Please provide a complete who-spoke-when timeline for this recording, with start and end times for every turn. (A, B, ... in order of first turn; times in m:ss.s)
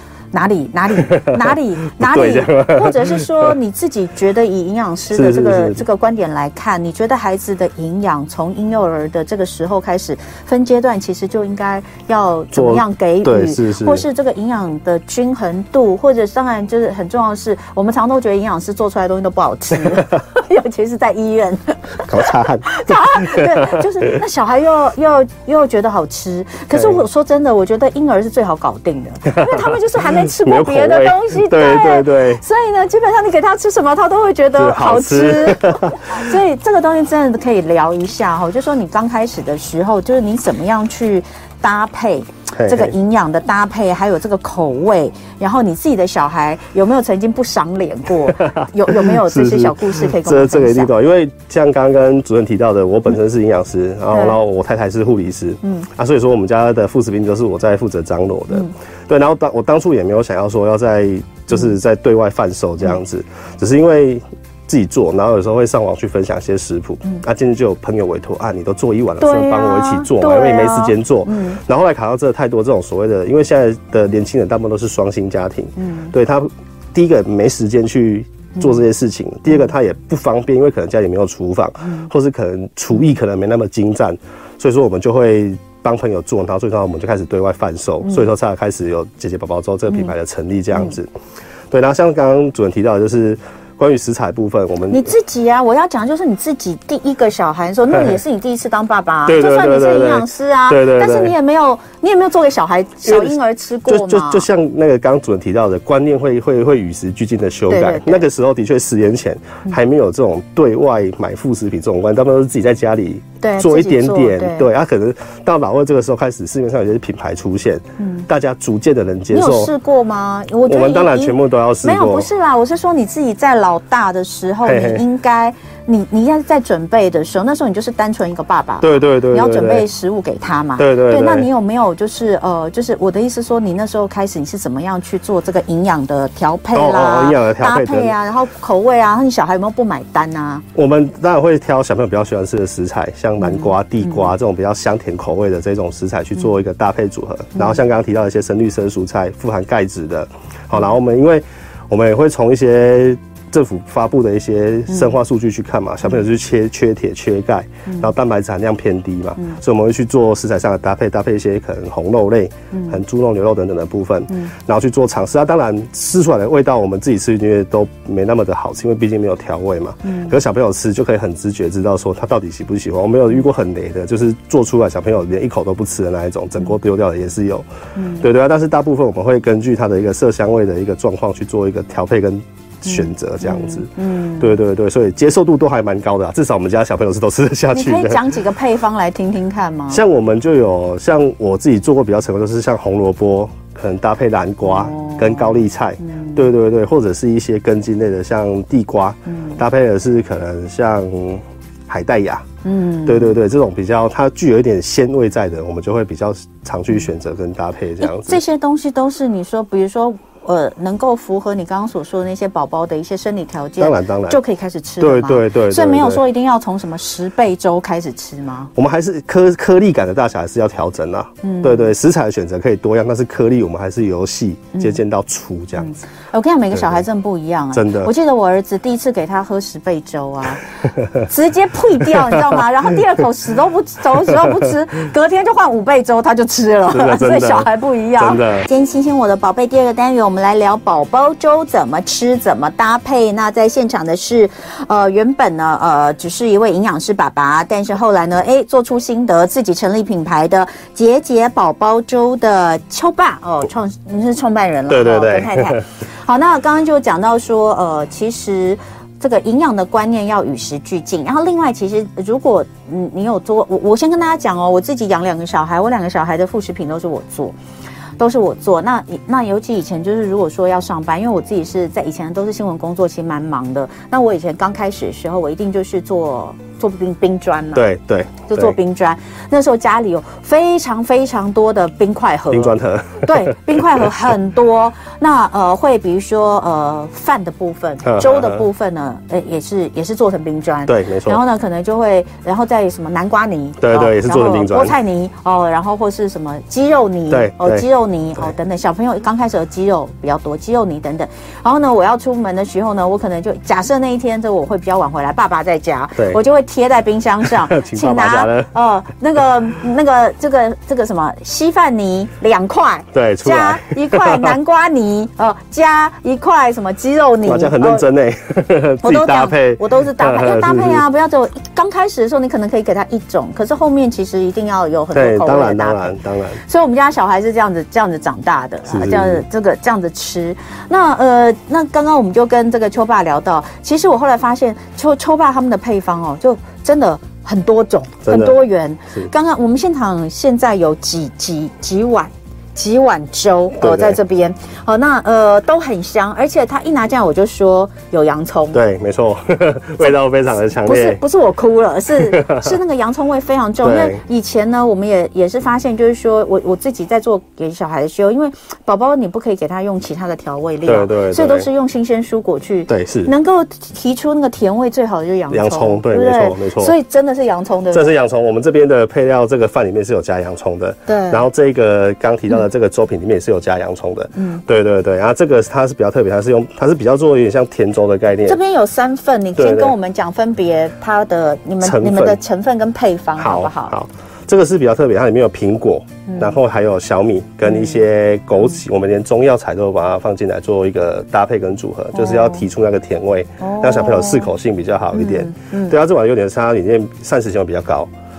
0:00.3-0:50.9 A
0:01.0-0:03.5 B
0:05.1-0:05.8 B
0:12.5-0:14.0 B
0:22.0-0:23.9 B
0:26.7-0:27.0 B
0:29.3-0:32.4 B
0:34.5-0:36.3 B
0:42.5-0:42.9 B
0:48.3-1:31.1 B
0:54.1-0:54.4 A
1:09.2-1:11.6 A
1:15.8-1:16.1 A
1:31.7-1:35.1 B
1:34.9-1:44.5 A
1:39.2-1:41.3 B
1:43.0-1:59.7 B
1:47.7-1:48.2 A
1:53.4-1:54.7 A
1:58.0-1:58.3 A
1:59.3-2:20.6 A
2:00.6-2:02.3 B
2:04.6-2:05.0 B
2:08.8-2:09.8 B
2:10.8-2:11.5 B
2:16.7-2:18.1 B
2:20.7-2:57.6 B
2:23.4-2:23.7 A
2:42.7-2:43.0 A
2:50.0-2:50.4 A
2:58.0-2:58.2 A
2:58.2-3:08.3 B
3:02.8-3:04.6 A
3:07.7-3:10.0 A
3:09.9-3:22.4 B
3:14.6-3:16.4 A
3:19.3-3:19.6 A
3:22.6-3:23.3 A
3:23.0-3:28.4 B
3:28.0-3:38.7 A
3:33.8-3:34.4 B
3:35.0-3:36.2 B
3:38.8-3:45.9 B
3:41.4-3:41.9 A
3:44.7-3:45.0 A
3:45.8-4:27.5 A
3:46.7-3:47.0 B
3:47.7-3:48.1 B
3:52.2-3:52.6 B
3:54.3-3:54.6 B
3:56.9-3:58.7 B
4:14.9-4:15.8 B
4:28.2-4:37.8 A
4:37.7-4:38.8 B
4:38.5-5:18.0 A
4:42.5-4:44.1 B
4:48.0-4:48.6 B
4:50.9-4:51.4 B
4:53.8-4:54.9 B
4:57.3-4:57.8 B
5:07.4-5:08.7 B
5:13.1-5:14.5 B
5:17.4-5:21.0 B
5:19.0-5:48.8 A
5:25.1-5:26.6 B
5:28.9-5:29.4 B
5:38.2-5:38.6 B
5:43.8-5:44.2 B
5:48.7-5:51.2 B
5:50.8-6:08.1 A
5:52.2-5:52.7 B
5:53.8-5:54.2 B
6:00.8-6:01.7 B
6:02.9-6:03.3 B
6:05.5-6:06.9 B
6:07.9-6:18.6 B
6:11.1-6:11.4 A
6:14.3-6:14.6 A
6:18.4-6:23.9 A
6:19.6-6:19.9 B
6:21.8-6:22.4 B
6:23.4-6:38.1 B
6:26.3-6:26.6 A
6:27.6-6:28.0 A
6:32.1-6:32.6 A
6:33.6-6:34.5 A
6:35.1-6:36.0 A